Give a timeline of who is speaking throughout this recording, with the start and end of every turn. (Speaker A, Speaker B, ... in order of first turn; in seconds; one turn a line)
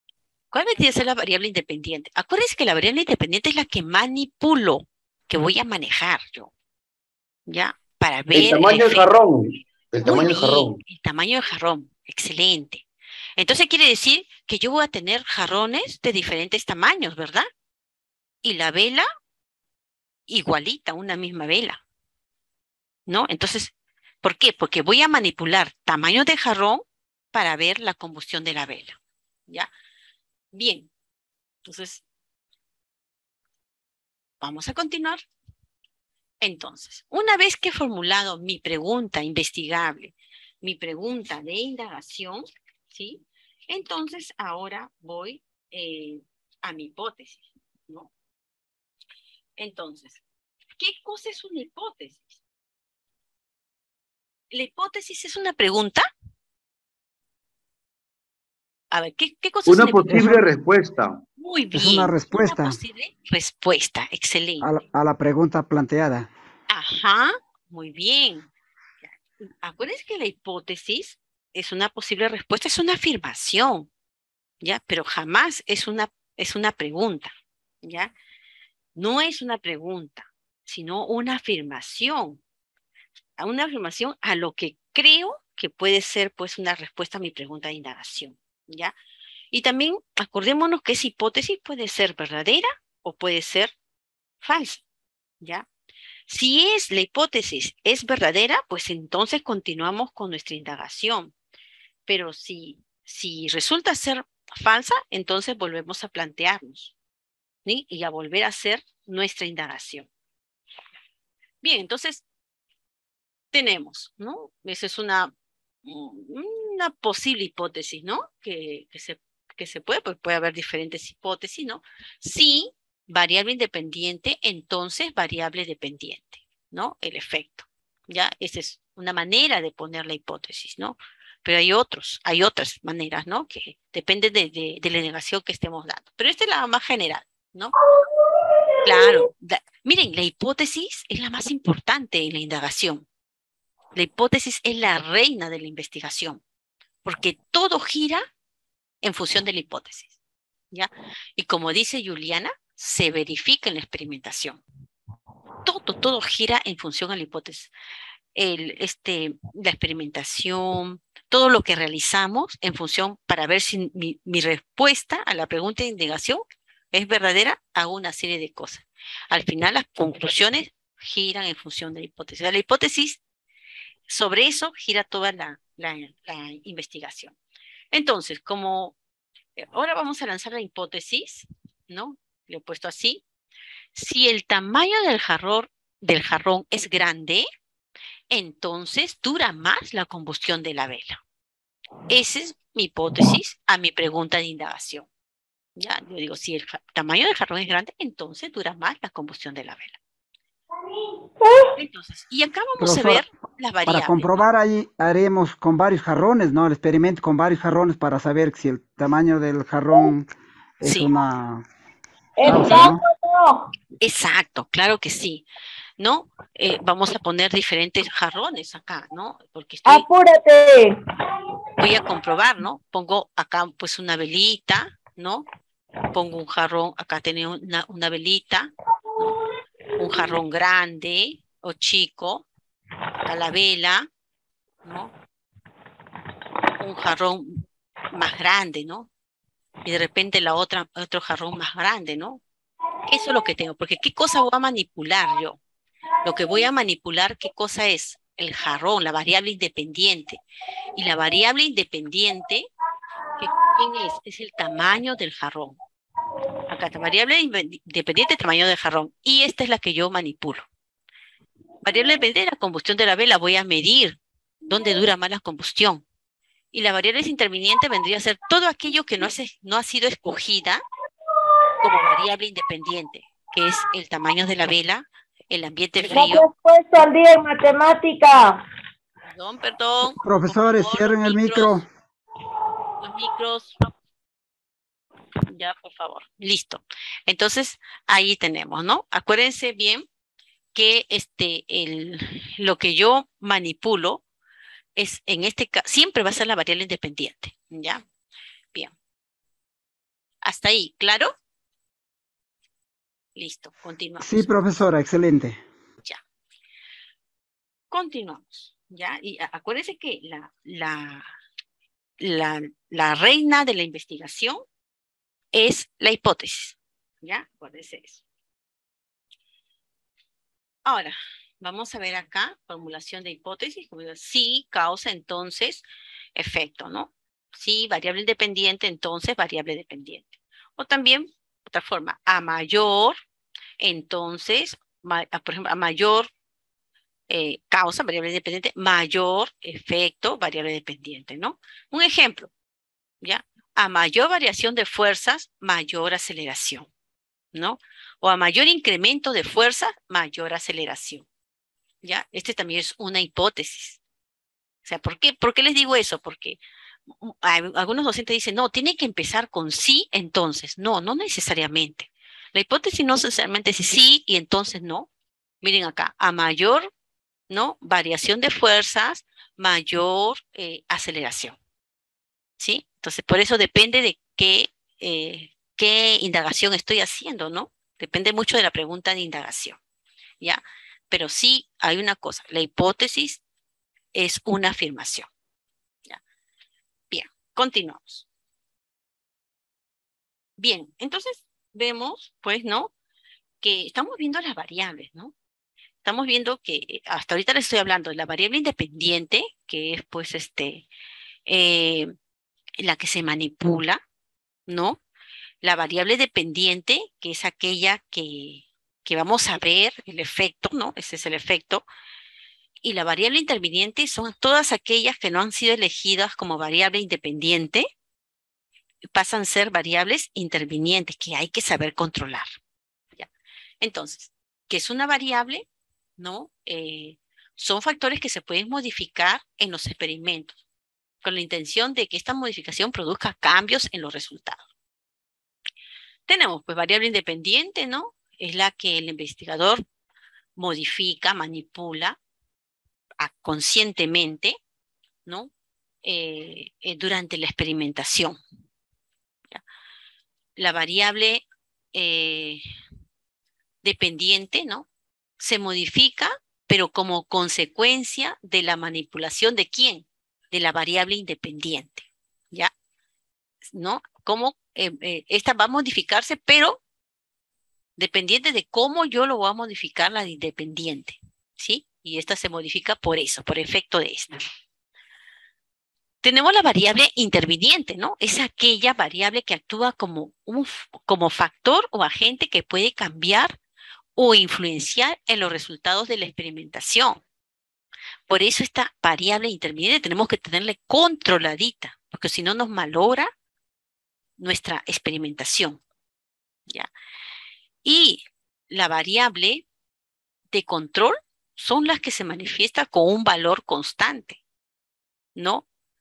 Speaker A: 0.5-6.5
Speaker A: 7.5-9.1
Speaker B: 8.3-10.8
Speaker A: 10.0-12.8
Speaker A: 13.4-17.5
Speaker A: 18.4-19.1
Speaker A: 20.3-21.8
Speaker A: 23.1-23.7
Speaker A: 24.2-29.0
Speaker A: 30.5-30.9
Speaker A: 31.6-32.0
Speaker A: 34.4-35.2
Speaker A: 36.4-48.1
Speaker A: 49.6-50.2
Speaker A: 50.8-52.4
Speaker A: 54.5-56.1
Speaker A: 58.9-60.4
Speaker B: 59.7-61.2
Speaker C: 60.1-60.4
Speaker A: 61.4-64.7
Speaker C: 61.7-62.8
Speaker C: 64.6-66.3
Speaker A: 66.7-68.5
Speaker A: 69.0-73.9
Speaker A: 74.6-77.3
Speaker A: 77.8-78.1
Speaker A: 79.0-82.4
Speaker A: 83.4-88.9
Speaker A: 89.5-93.7
Speaker A: 94.4-94.8
Speaker A: 95.4-95.7
Speaker A: 96.3-101.3
Speaker A: 102.1-106.9
Speaker A: 107.7-110.1
Speaker A: 111.6-112.2
Speaker A: 113.5-115.3
Speaker A: 115.8-137.7
Speaker D: 138.4-139.2
Speaker A: 138.8-143.1
Speaker A: 143.9-146.4
Speaker A: 147.0-148.3
Speaker A: 149.0-150.1
Speaker A: 150.7-154.6
Speaker A: 155.6-157.7
Speaker A: 158.3-173.2
Speaker A: 174.1-177.3
Speaker A: 177.9-178.9
Speaker A: 179.6-183.2
Speaker A: 183.9-187.5
Speaker A: 188.3-191.2
Speaker A: 192.1-195.1
Speaker A: 195.8-200.0
Speaker D: 201.4-201.7
Speaker A: 201.8-204.4
Speaker C: 202.8-203.2
Speaker C: 203.9-210.3
Speaker C: 210.8-211.7
Speaker A: 210.8-211.1
Speaker D: 212.4-213.7
Speaker C: 212.4-213.0
Speaker A: 214.0-215.4
Speaker A: 216.0-220.1
Speaker D: 219.8-221.0
Speaker A: 221.8-225.4
Speaker A: 226.1-229.4
Speaker A: 230.0-232.5
Speaker A: 233.3-234.1
Speaker A: 234.8-235.1
Speaker A: 236.8-237.5
Speaker A: 238.1-239.1
Speaker A: 239.8-242.4
Speaker A: 243.1-245.6
Speaker A: 246.2-250.4
Speaker D: 246.3-246.6
Speaker A: 250.9-252.7
Speaker A: 253.4-255.8
Speaker D: 253.4-253.8
Speaker A: 256.7-260.7
Speaker A: 261.8-266.0
Speaker D: 261.9-262.2
Speaker A: 266.7-270.8
Speaker A: 271.8-277.1
Speaker D: 276.1-278.6
Speaker A: 279.3-281.8
Speaker C: 280.2-281.9
Speaker A: 283.0-283.8
Speaker A: 285.5-290.1
Speaker A: 290.7-294.2
Speaker A: 295.0-298.0
Speaker A: 300.4-301.3
Speaker A: 303.4-304.5
Speaker C: 304.2-305.6
Speaker A: 307.9-311.3
Speaker A: 312.2-314.6
Speaker A: 315.5-318.2
Speaker A: 320.9-325.8
Speaker A: 326.4-333.2
Speaker A: 333.8-336.3
Speaker A: 337.3-342.5
Speaker A: 343.2-346.9
Speaker A: 347.5-351.3
Speaker A: 352.0-354.0
Speaker A: 354.9-356.6
Speaker A: 357.2-365.1
Speaker A: 365.6-366.9
Speaker A: 367.5-371.6
Speaker A: 372.6-379.8
Speaker A: 380.4-383.4
Speaker A: 384.1-385.3
Speaker A: 387.1-388.3
Speaker A: 390.6-392.9
Speaker A: 393.6-395.3
Speaker A: 396.0-400.9
Speaker A: 401.5-402.1
Speaker A: 402.8-404.0
Speaker A: 404.7-405.0
Speaker A: 405.6-411.9
Speaker A: 412.8-417.9
Speaker A: 419.1-422.5
Speaker A: 423.8-425.7
Speaker A: 426.2-430.6
Speaker A: 431.2-434.6
Speaker A: 436.3-439.8
Speaker A: 440.6-442.2
Speaker A: 443.2-444.6
Speaker A: 446.0-448.4
Speaker A: 450.6-452.6
Speaker A: 453.8-454.9
Speaker A: 455.4-462.7
Speaker A: 463.7-466.8
Speaker A: 468.0-474.4
Speaker A: 476.2-483.6
Speaker A: 484.2-487.2
Speaker A: 488.3-493.3
Speaker A: 494.4-495.8
Speaker A: 497.8-499.6
Speaker A: 500.5-504.4
Speaker A: 505.4-505.6